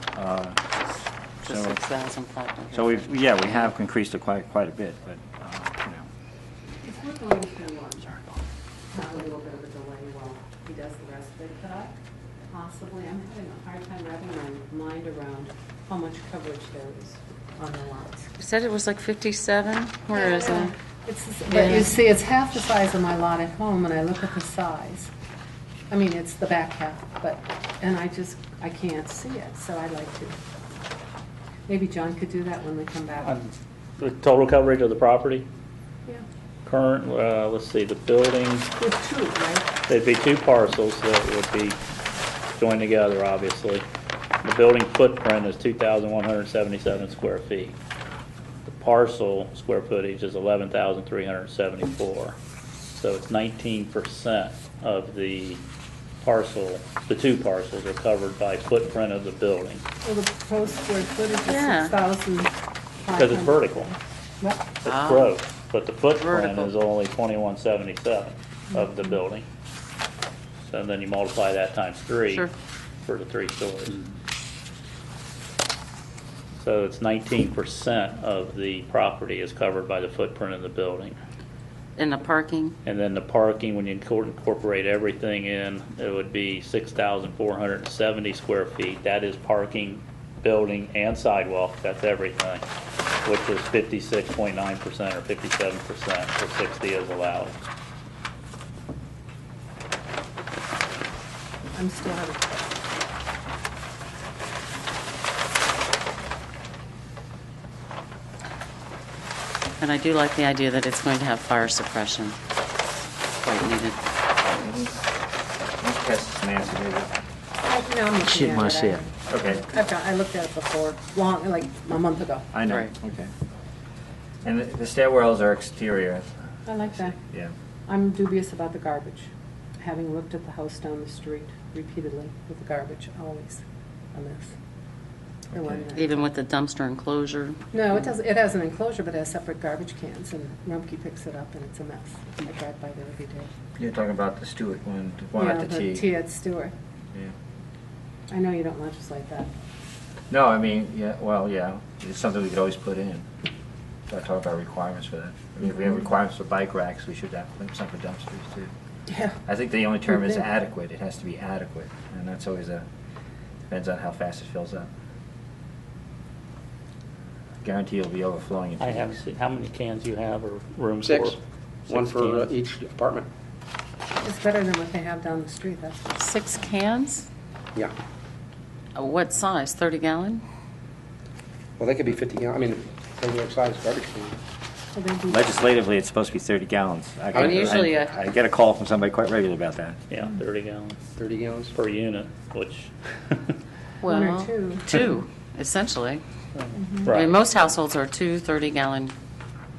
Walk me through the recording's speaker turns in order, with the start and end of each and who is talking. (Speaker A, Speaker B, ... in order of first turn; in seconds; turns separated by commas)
Speaker A: 0.1-0.6, Speaker A: 1.4-1.8, Speaker B: 1.4-3.6, Speaker A: 2.7-6.0, Speaker C: 6.8-8.0, Speaker A: 8.0-8.3, Speaker C: 8.9-12.0, Speaker C: 12.5-18.3, Speaker B: 18.4-20.7, Speaker C: 20.1-25.1, Speaker B: 21.5-21.9, Speaker C: 25.9-30.4, Speaker C: 31.7-33.4, Speaker D: 33.2-35.5, Speaker D: 36.6-38.7, Speaker C: 38.8-39.7, Speaker D: 39.9-41.8, Speaker D: 42.6-43.8, Speaker D: 44.4-47.7, Speaker D: 48.6-52.4, Speaker D: 52.9-55.6, Speaker D: 56.2-59.8, Speaker C: 60.0-64.6, Speaker B: 61.4-61.9, Speaker D: 63.1-63.9, Speaker D: 64.8-69.4, Speaker B: 64.8-65.3, Speaker B: 66.1-66.7, Speaker C: 68.7-69.2, Speaker D: 70.7-72.5, Speaker D: 73.0-74.0, Speaker D: 76.6-81.2, Speaker B: 82.0-82.8, Speaker D: 82.8-92.6, Speaker D: 93.2-97.7, Speaker C: 101.7-102.8, Speaker B: 109.8-112.4, Speaker B: 113.4-114.0, Speaker A: 114.5-115.0, Speaker A: 115.8-117.1, Speaker C: 117.6-122.5, Speaker A: 119.3-119.6, Speaker A: 122.5-123.3, Speaker B: 122.7-122.9, Speaker A: 124.4-126.3, Speaker C: 126.7-127.2, Speaker A: 127.0-127.5, Speaker C: 127.9-133.6, Speaker C: 134.1-134.5, Speaker C: 135.5-136.2, Speaker A: 135.5-135.8, Speaker B: 135.9-137.6, Speaker C: 137.7-143.5, Speaker A: 143.8-146.1, Speaker C: 145.4-146.7, Speaker C: 148.3-149.5, Speaker A: 150.3-153.3, Speaker A: 154.1-158.7, Speaker C: 159.1-159.4, Speaker A: 159.4-162.8, Speaker A: 163.7-164.9, Speaker A: 167.6-169.2, Speaker D: 168.8-172.5, Speaker E: 171.0-171.4, Speaker E: 171.9-173.3, Speaker C: 174.2-176.2, Speaker B: 176.2-177.3, Speaker B: 178.9-180.4, Speaker E: 181.8-184.4, Speaker C: 184.9-185.5, Speaker A: 185.3-190.0, Speaker B: 187.3-188.2, Speaker E: 187.4-187.7, Speaker D: 190.1-191.0, Speaker E: 191.2-191.7, Speaker D: 191.7-193.6, Speaker B: 194.0-196.2, Speaker C: 194.1-195.0, Speaker D: 196.5-197.4, Speaker C: 196.7-197.2, Speaker B: 197.0-199.1